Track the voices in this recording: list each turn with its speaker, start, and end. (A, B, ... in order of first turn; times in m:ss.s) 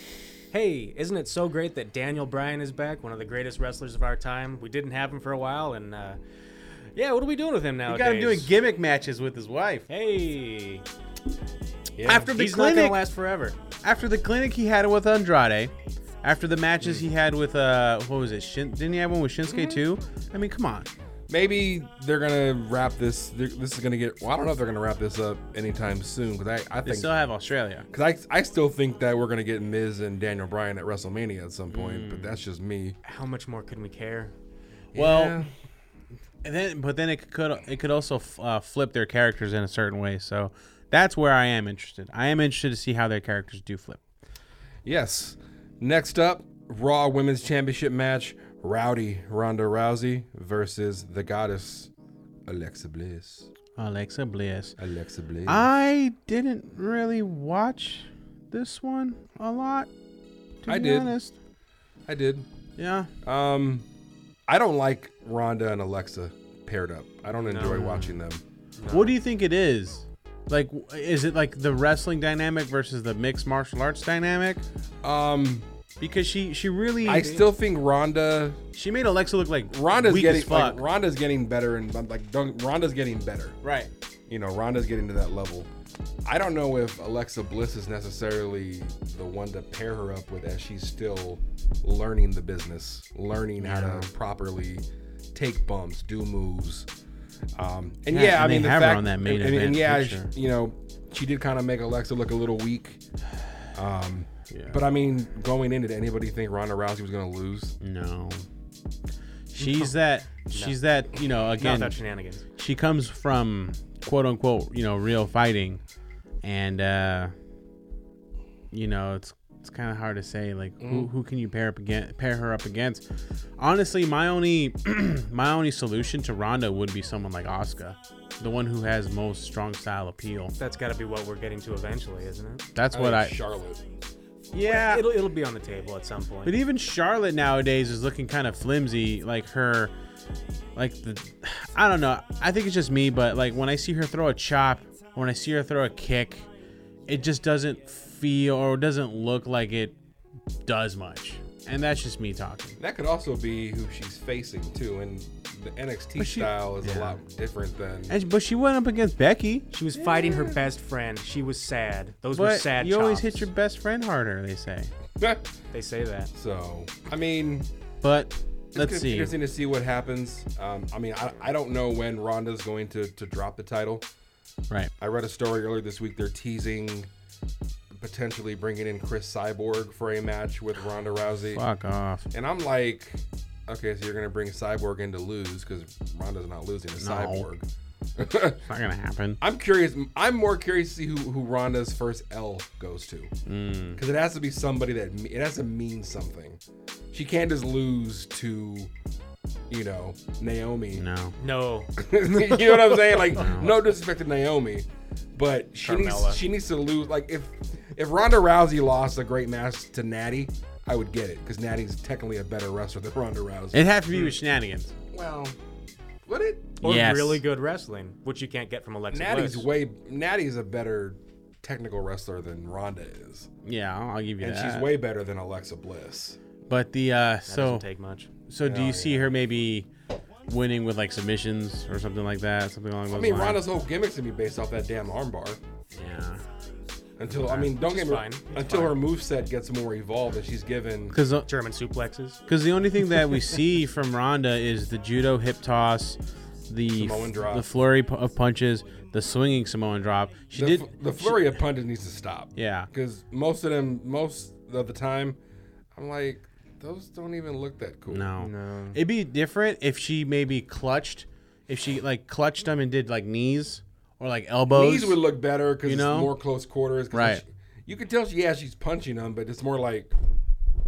0:00.5-0:06.2 A
0:06.9-0:08.5 A
0:07.8-0:09.9 B
0:09.9-0:10.8 A
0:12.0-0:12.3 C
0:12.0-0:13.0 B
0:12.1-0:13.6 A
0:13.8-0:20.9 B
0:19.5-0:19.8 C
0:21.3-0:27.1 C
0:26.8-0:27.8 B
0:27.9-0:33.0 C
0:31.7-0:32.4 B
0:33.0-0:34.3 A
0:34.9-0:35.5 C
0:34.9-0:35.4 B
0:36.4-0:44.0 B
0:44.8-0:51.9 C
0:52.5-0:53.5 C
0:53.8-0:54.7 B
0:54.8-0:55.7 C
0:55.4-0:59.9 B
1:00.6-1:01.3 B
1:00.7-1:01.2 C
1:02.1-1:02.5 C
1:02.8-1:03.1 B
1:03.2-1:03.8 C
1:04.5-1:08.4 C
1:07.4-1:07.8 A
1:07.6-1:08.2 B
1:08.8-1:09.1 A
1:08.9-1:14.6 B
1:15.0-1:15.7 C
1:16.0-1:17.4 B
1:17.0-1:18.6 C
1:17.0-1:17.4 A
1:18.7-1:20.8 B
1:19.7-1:23.6 C
1:23.6-1:23.9 B
1:24.3-1:25.7 C
1:26.2-1:36.9 C
1:33.6-1:34.1 B
1:37.6-1:43.0 C
1:38.1-1:40.3 B
1:43.7-1:47.7 C
1:44.5-1:44.8 B
1:47.8-1:48.4 B
1:49.5-1:52.0 B
1:49.6-1:49.9 A
1:50.5-1:50.8 A
1:51.6-1:52.4 A
1:52.6-1:55.8 B
1:56.4-1:57.3 B
1:58.7-2:03.0 B
2:00.8-2:01.1 C
2:03.6-2:10.5 B
2:10.6-2:12.6 A
2:12.8-2:13.4 B
2:12.9-2:13.8 C
2:14.5-2:15.1 B
2:14.6-2:16.6 A
2:16.4-2:19.9 B
2:20.8-2:26.5 B
2:27.1-2:29.9 B
2:30.7-2:32.8 B
2:32.8-2:38.2 C
2:36.2-2:37.2 B
2:38.1-2:40.0 B
2:39.7-2:43.4 A
2:40.0-2:40.6 C
2:42.3-2:44.9 B
2:45.2-2:45.4 C
2:45.7-2:46.3 A
2:46.3-2:47.7 C
2:48.0-2:49.3 B
2:48.7-2:54.0 C
2:55.0-2:57.1 C
2:57.9-3:01.6 C
3:01.5-3:02.2 B
3:02.3-3:07.6 C
3:07.0-3:07.5 B
3:08.2-3:08.6 C
3:08.7-3:09.4 B
3:09.4-3:13.3 C
3:13.4-3:14.0 B
3:14.0-3:16.6 C
3:17.1-3:18.9 C
3:19.7-3:21.0 C
3:20.9-3:21.3 B
3:21.4-3:23.4 A
3:22.0-3:33.8 C
3:23.3-3:23.7 B
3:25.8-3:26.4 A
3:33.7-3:34.9 B
3:35.1-3:35.6 C
3:36.2-3:36.8 C
3:36.8-3:39.7 A
3:36.8-3:37.4 B
3:39.1-3:43.5 C
3:43.6-3:44.9 B
3:44.4-3:46.4 C
3:46.7-3:47.8 B
3:47.5-3:48.3 A
3:48.5-3:49.9 B
3:48.6-3:49.3 C
3:50.5-3:53.6 B
3:53.1-3:55.6 C
3:55.9-3:56.4 B
3:57.2-4:01.2 C
3:57.4-3:59.0 A
4:01.1-4:01.5 B
4:01.4-4:02.4 A
4:02.5-4:11.6 B
4:06.9-4:07.7 C
4:10.5-4:15.4 C
4:12.6-4:12.9 B
4:15.9-4:18.3 C
4:18.1-4:25.2 B
4:18.4-4:19.0 A
4:24.7-4:30.1 C
4:25.8-4:26.3 B
4:27.1-4:27.4 B